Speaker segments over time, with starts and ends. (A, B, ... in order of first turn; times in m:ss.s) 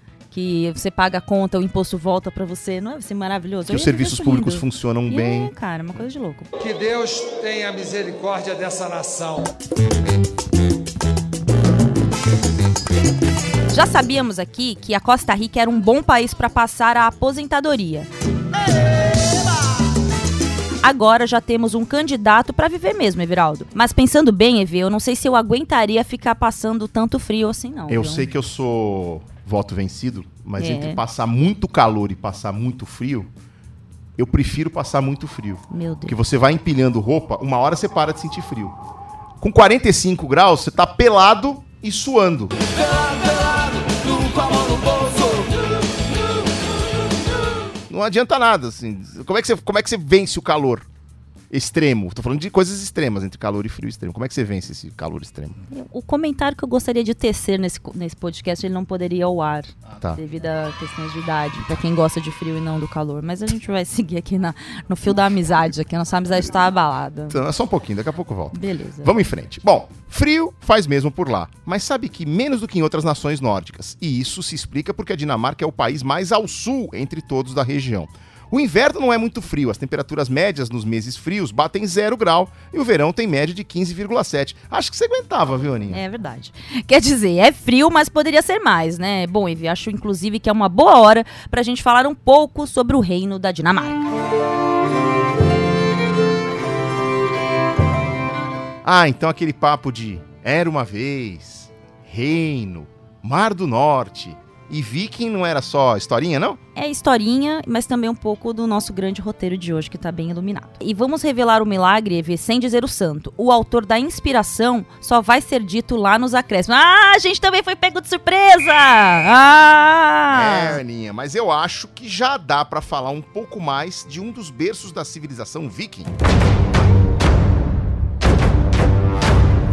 0:00.3-0:06.5 A
0:03.7-0:05.5 B
0:06.6-0:09.5 C
0:13.7-0:18.1 A
0:20.8-0:28.3 A
0:27.9-0:33.3 B
0:30.6-0:31.0 A
0:34.2-0:38.8 B
0:35.7-0:36.2 A
0:39.4-0:42.5 B
0:47.9-0:50.9 B
0:51.5-0:55.6 B
0:55.7-1:07.4 A
0:59.9-1:00.2 B
1:07.3-1:26.0 B
1:08.5-1:09.2 A
1:25.9-1:34.0 A
1:38.8-1:46.6 B
1:46.8-2:00.8 A
2:00.3-2:06.1 B